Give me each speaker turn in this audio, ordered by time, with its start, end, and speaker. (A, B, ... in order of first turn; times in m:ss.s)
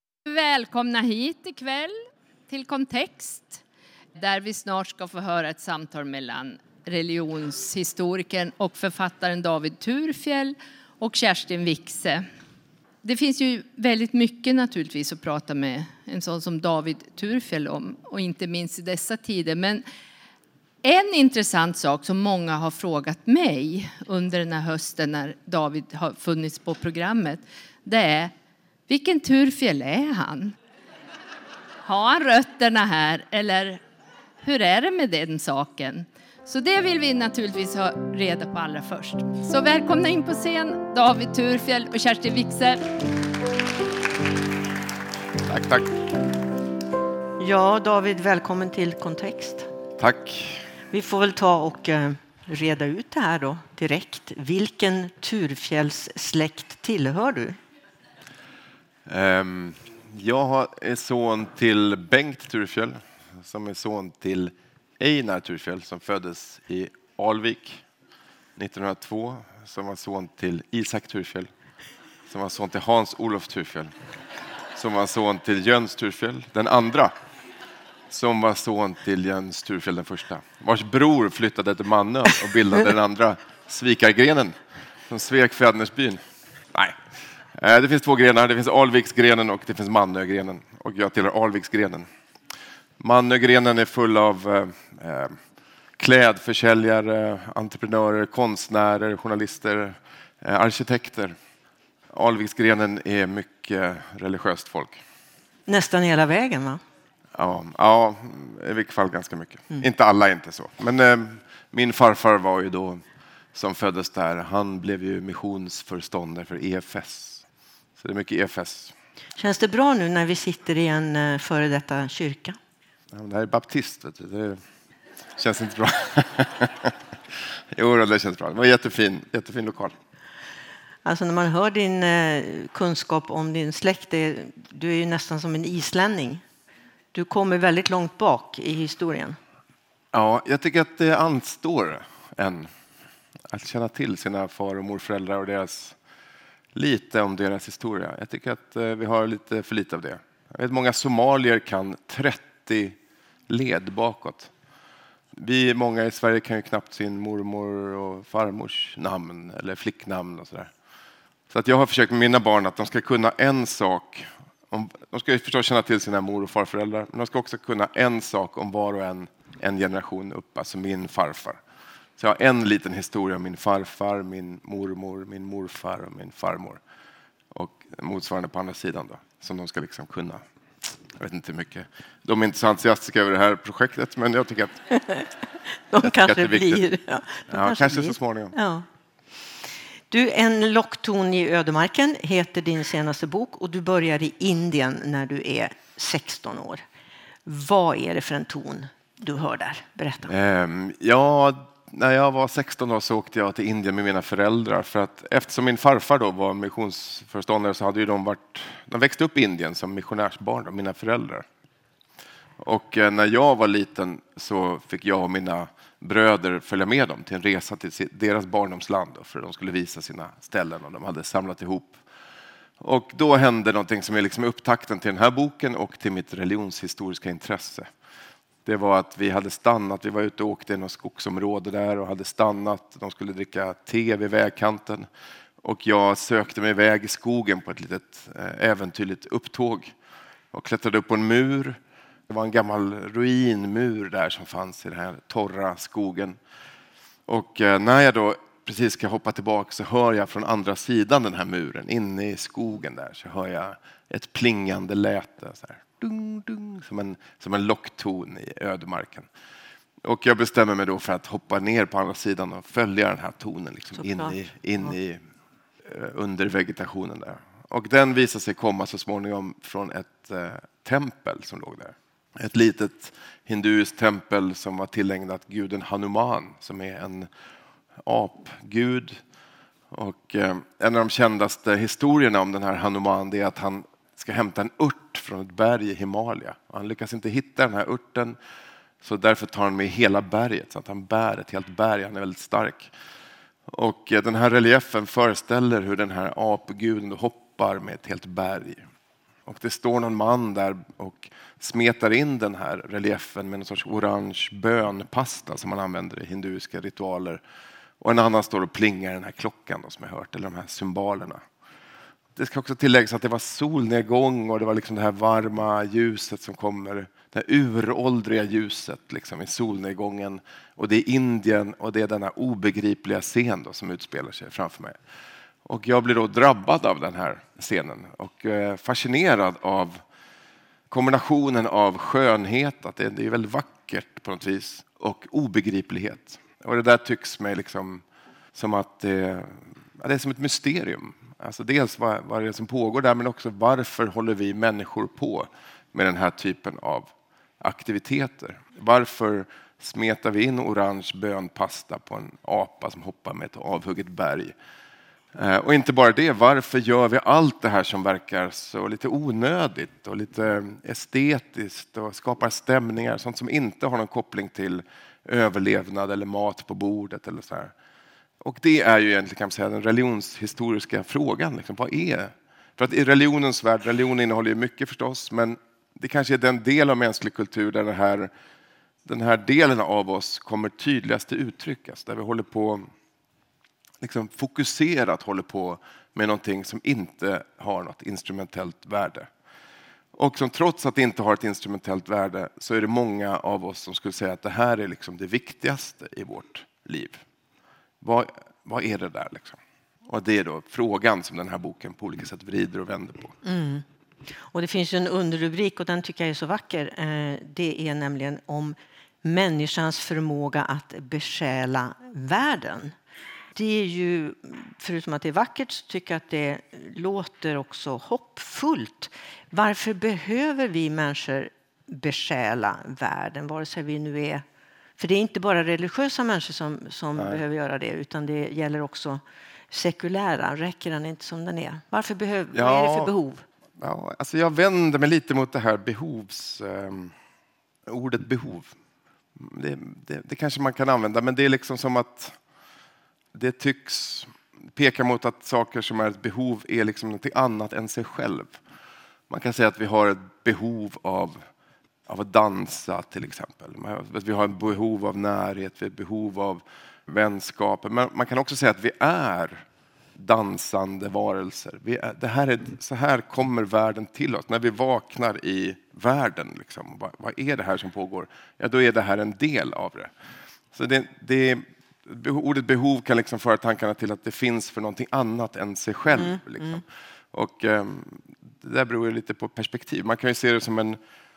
0:00.2-0:02.0 A
0:02.5-0:03.6 A
0:04.2-0:12.2 A
0:13.0-0:19.8 A
0:20.8-0:28.3 A
0:28.9-0:30.5 A
0:31.8-0:33.8 A
0:34.4-0:42.9 A
0:45.4-0:45.9 B
0:47.4-0:49.7 C
0:50.0-0:50.7 B
0:50.9-0:57.6 C
0:59.0-1:07.8 B
1:08.6-1:11.5 B
1:12.3-1:13.9 B
1:14.8-1:17.1 B
1:18.1-1:24.6 B
1:25.1-1:26.2 B
1:26.7-1:27.0 B
1:27.5-1:32.1 B
1:33.0-1:35.4 B
1:36.0-1:41.4 B
1:42.1-1:45.0 B
1:45.7-1:46.8 C
1:47.3-1:53.0 B
1:53.5-1:57.4 B
1:58.0-1:58.9 B
1:59.4-2:02.6 C
2:03.1-2:04.6 B
2:05.4-2:07.0 B
2:07.7-2:09.9 B
2:11.0-2:16.4 C
2:17.1-2:19.4 C
2:20.1-2:22.7 B
2:23.5-2:26.0 B
2:26.7-2:33.0 B
2:33.5-2:34.5 B
2:35.3-2:40.7 B
2:41.5-2:51.6 B
2:52.2-2:56.8 B
2:57.5-3:00.4 B
3:01.1-3:04.8 B
3:04.9-3:05.3 C
3:05.9-3:08.8 C
3:06.0-3:06.8 B
3:07.5-3:08.5 B
3:10.1-3:16.8 C
3:17.4-3:20.3 C
3:20.3-3:31.4 B
3:32.6-3:42.0 B
3:42.8-3:47.9 B
3:48.6-3:55.1 B
3:55.6-3:59.9 B
4:00.5-4:06.4 B
4:07.3-4:19.3 B
4:20.0-4:25.2 B
4:24.0-4:24.9 C
4:25.8-4:37.3 B
4:37.9-4:39.2 B
4:39.9-4:48.4 B
4:49.0-4:52.9 B
4:53.7-4:58.8 B
4:59.4-5:07.4 B
5:08.0-5:11.4 B
5:12.3-5:25.0 B
5:25.6-5:30.0 B
5:30.9-5:54.5 B
5:55.3-6:07.7 B
6:08.4-6:18.3 B
6:19.0-6:22.8 B
6:24.0-6:29.3 B
6:30.1-6:37.2 B
6:38.0-6:43.4 B
6:43.4-6:43.8 C
6:44.4-6:53.0 C
6:53.5-7:04.4 C
7:05.0-7:13.4 C
7:12.5-7:13.1 B
7:13.8-7:17.1 B
7:17.8-7:18.7 B
7:19.4-7:22.4 B
7:23.3-7:28.6 B
7:29.3-7:31.4 B
7:32.1-7:39.6 B
7:40.2-7:50.1 B
7:50.7-8:01.0 B
7:56.1-7:56.8 C